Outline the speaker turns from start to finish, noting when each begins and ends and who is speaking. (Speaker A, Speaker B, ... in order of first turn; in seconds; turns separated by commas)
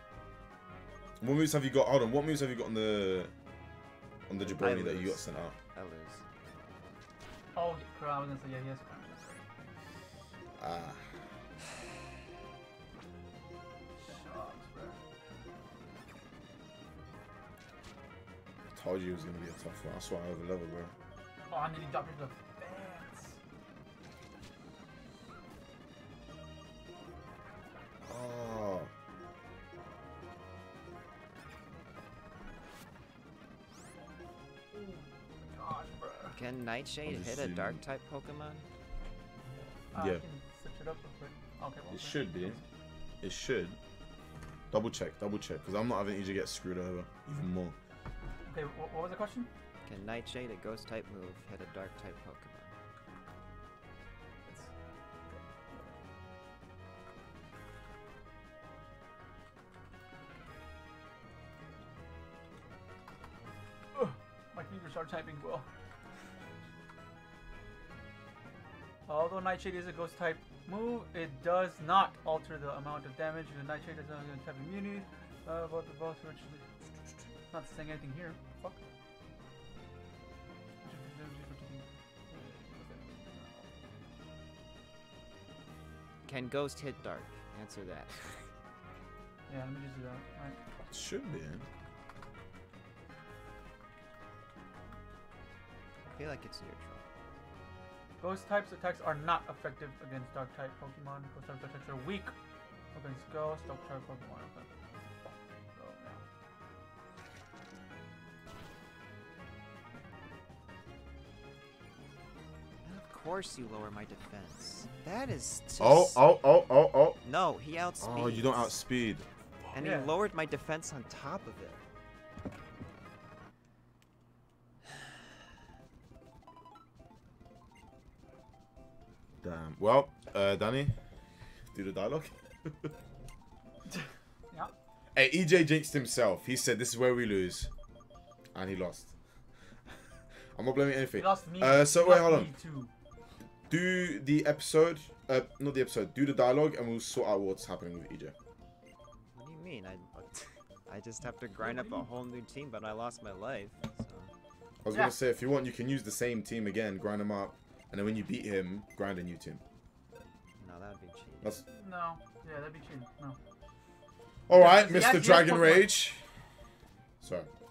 Speaker A: 1.2-3.3, Speaker A: 4.3-5.5, Speaker B: 4.4-6.2, Speaker C: 7.5-9.4, Speaker A: 10.6-11.2, Speaker C: 14.0-15.0, Speaker A: 18.7-20.9, Speaker C: 21.5-23.4, Speaker A: 28.0-28.9, Speaker C: 34.7-36.4, Speaker B: 36.3-38.6, Speaker A: 37.0-37.8, Speaker C: 39.9-42.6, Speaker A: 39.9-40.2, Speaker A: 41.9-42.6, Speaker A: 43.2-43.8, Speaker A: 44.7-47.8, Speaker C: 48.5-49.5, Speaker B: 49.8-52.7, Speaker C: 54.4-54.7, Speaker C: 55.3-56.0, Speaker C: 63.9-65.7, Speaker C: 69.1-78.8, Speaker C: 80.8-83.7, Speaker B: 86.2-88.5, Speaker C: 89.5-90.6, Speaker A: 90.9-91.7, Speaker B: 96.1-97.0, Speaker C: 98.2-102.3, Speaker C: 102.9-104.7, Speaker C: 105.7-106.2, Speaker B: 112.8-116.2, Speaker A: 115.8-117.2, Speaker B: 117.2-118.7, Speaker A: 118.0-119.2, Speaker B: 119.7-121.8, Speaker C: 119.8-120.1, Speaker A: 129.4-130.9, Speaker A: 131.7-132.9, Speaker C: 133.9-134.7, Speaker A: 135.1-137.7, Speaker A: 138.5-139.1, Speaker A: 140.5-142.5, Speaker C: 141.1-142.9, Speaker A: 143.7-148.3, Speaker B: 149.3-154.3, Speaker C: 151.6-152.1, Speaker A: 154.8-159.6, Speaker B: 160.6-161.5, Speaker C: 161.7-163.4, Speaker A: 164.5-166.2, Speaker C: 164.5-165.9, Speaker A: 167.2-167.5